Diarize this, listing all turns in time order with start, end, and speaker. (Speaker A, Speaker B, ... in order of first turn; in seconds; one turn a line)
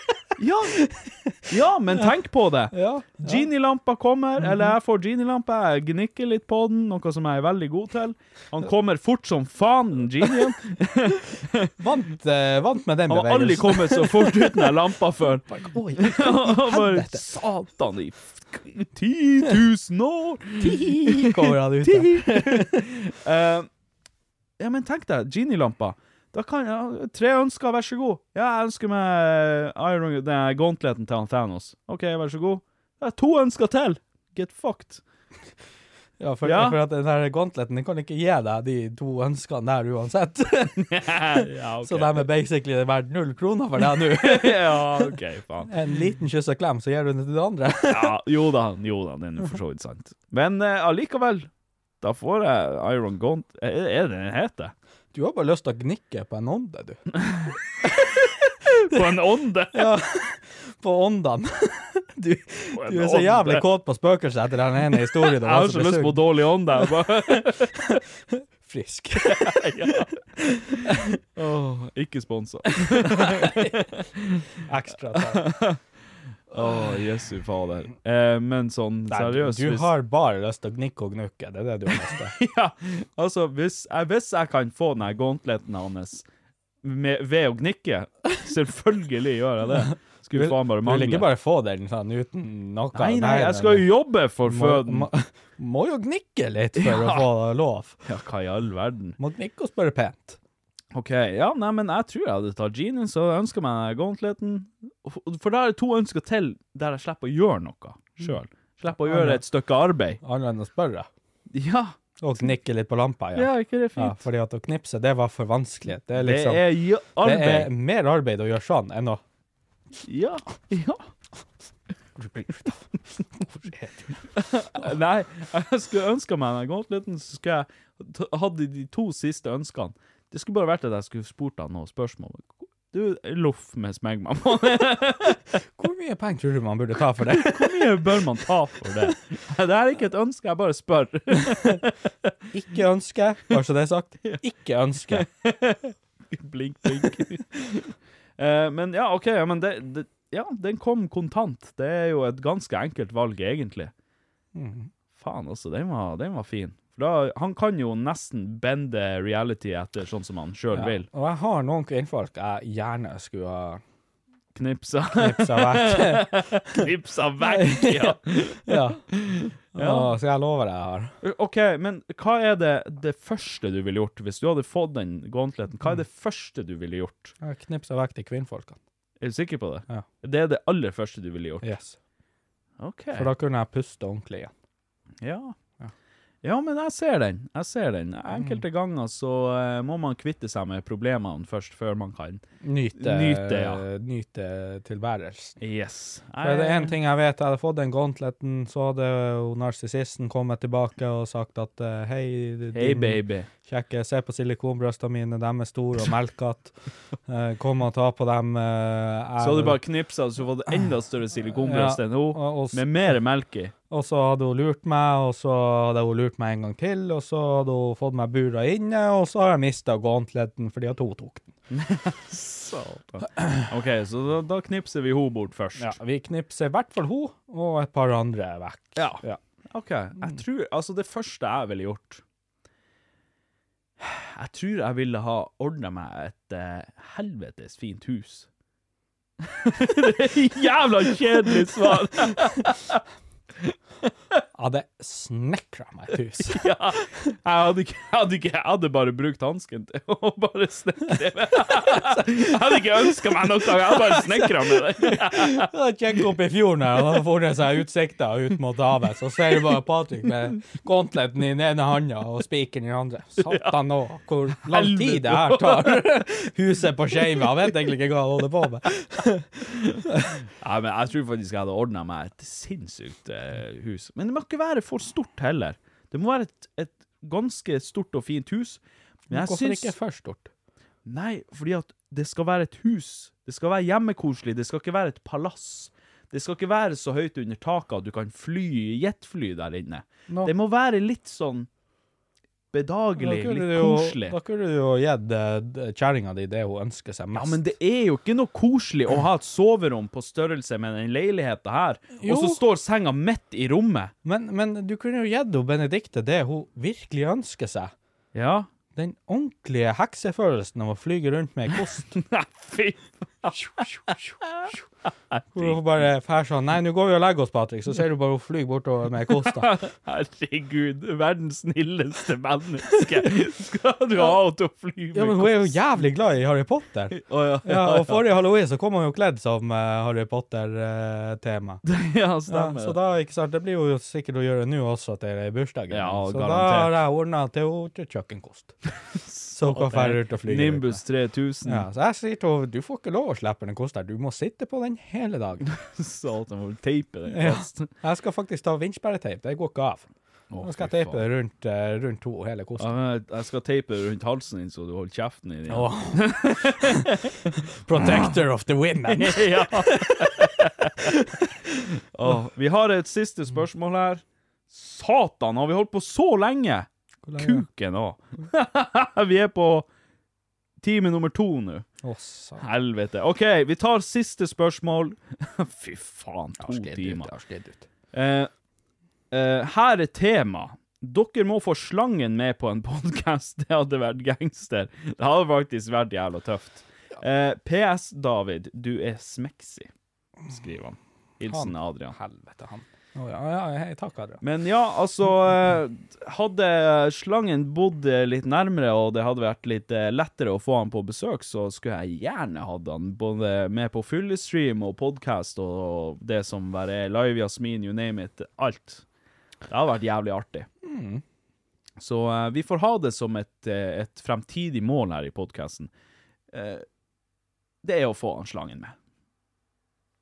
Speaker A: 0.4-0.8
Speaker B: 0.8-1.4
Speaker A: 1.4-11.7
Speaker B: 2.7-3.5
Speaker B: 4.4-4.7
Speaker B: 11.8-14.7
Speaker A: 13.1-23.7
Speaker B: 15.5-17.2
Speaker B: 20.6-22.9
Speaker A: 24.6-35.0
Speaker B: 36.2-45.1
Speaker A: 36.4-36.8
Speaker A: 40.9-42.2
Speaker A: 44.1-45.7
Speaker B: 45.7-48.1
Speaker A: 47.9-51.5
Speaker A: 52.0-54.7
Speaker B: 55.1-57.0
Speaker A: 57.1-58.0
Speaker A: 58.8-59.9
Speaker B: 59.7-71.2
Speaker A: 62.7-63.6
Speaker A: 65.1-68.0
Speaker A: 69.2-70.1
Speaker A: 71.3-74.5
Speaker B: 72.8-73.8
Speaker B: 74.6-75.4
Speaker A: 75.1-75.8
Speaker A: 76.5-79.9
Speaker B: 76.5-77.0
Speaker B: 79.1-82.3
Speaker A: 82.1-86.2
Speaker A: 86.8-91.3
Speaker B: 89.7-93.9
Speaker A: 92.9-95.1
Speaker B: 94.4-98.0
Speaker A: 96.8-97.3
Speaker A: 98.0-99.2
Speaker B: 99.2-100.4
Speaker A: 100.9-110.2
Speaker B: 108.9-109.4
Speaker B: 110.2-111.1
Speaker A: 111.5-112.0
Speaker B: 112.2-116.6
Speaker A: 113.3-114.2
Speaker A: 116.2-117.7
Speaker B: 117.2-119.2
Speaker A: 120.0-121.1
Speaker B: 122.2-124.2
Speaker A: 124.3-135.4
Speaker B: 135.8-138.0
Speaker A: 137.3-142.3
Speaker B: 142.5-145.3
Speaker A: 145.1-153.9
Speaker B: 154.5-154.9
Speaker A: 155.2-161.1
Speaker B: 160.7-163.8
Speaker A: 164.5-170.1
Speaker B: 165.2-166.8
Speaker B: 167.4-169.1
Speaker B: 169.7-171.1
Speaker A: 171.2-177.3
Speaker B: 177.4-178.8
Speaker A: 179.2-181.7
Speaker B: 181.6-182.0
Speaker A: 182.8-183.3
Speaker B: 183.1-184.5
Speaker A: 185.2-185.6
Speaker A: 186.4-192.4
Speaker B: 188.3-188.6
Speaker B: 192.6-195.6
Speaker A: 193.0-193.8
Speaker A: 195.6-196.9
Speaker B: 196.4-206.7
Speaker A: 202.7-203.5
Speaker B: 207.3-209.8
Speaker A: 209.4-213.7
Speaker B: 211.5-212.8
Speaker B: 213.9-221.5
Speaker A: 221.7-226.0
Speaker B: 223.4-223.6
Speaker B: 225.8-229.4
Speaker A: 228.9-232.2
Speaker A: 234.0-238.5
Speaker A: 239.4-243.0
Speaker B: 241.7-241.9
Speaker B: 244.5-246.7
Speaker A: 246.4-255.7
Speaker B: 251.7-252.5
Speaker B: 253.8-270.3
Speaker A: 263.4-263.7
Speaker A: 264.6-266.1
Speaker A: 267.2-267.5
Speaker A: 269.8-270.0
Speaker A: 270.6-279.9
Speaker B: 279.3-280.5
Speaker A: 281.1-291.7
Speaker A: 292.7-294.4
Speaker B: 293.2-297.6
Speaker A: 297.3-304.1
Speaker B: 302.2-302.6
Speaker B: 304.2-307.9
Speaker A: 308.3-308.7
Speaker B: 308.9-312.2
Speaker A: 312.1-314.7
Speaker B: 313.6-314.4
Speaker A: 315.3-315.8
Speaker B: 315.6-319.7
Speaker A: 319.4-325.8
Speaker B: 325.1-331.8
Speaker A: 327.1-328.2
Speaker A: 331.8-332.9
Speaker B: 332.5-338.7
Speaker A: 335.9-336.9
Speaker A: 339.3-341.9
Speaker B: 339.5-341.0
Speaker B: 341.6-345.6
Speaker A: 345.6-347.9
Speaker B: 347.3-350.1
Speaker A: 350.5-351.2
Speaker B: 350.6-352.9
Speaker A: 352.8-358.3
Speaker B: 355.7-357.1
Speaker B: 357.8-361.5
Speaker A: 359.1-361.2
Speaker A: 362.1-369.9
Speaker B: 367.2-367.6
Speaker A: 370.8-371.9
Speaker B: 372.0-372.7
Speaker A: 372.6-377.3
Speaker B: 376.6-377.9
Speaker A: 378.1-378.5
Speaker A: 379.3-389.9
Speaker A: 390.5-392.1
Speaker B: 391.4-394.4
Speaker A: 394.4-409.0
Speaker A: 409.7-410.7
Speaker B: 410.8-411.2
Speaker A: 412.0-415.9
Speaker A: 416.5-416.8
Speaker A: 417.8-418.9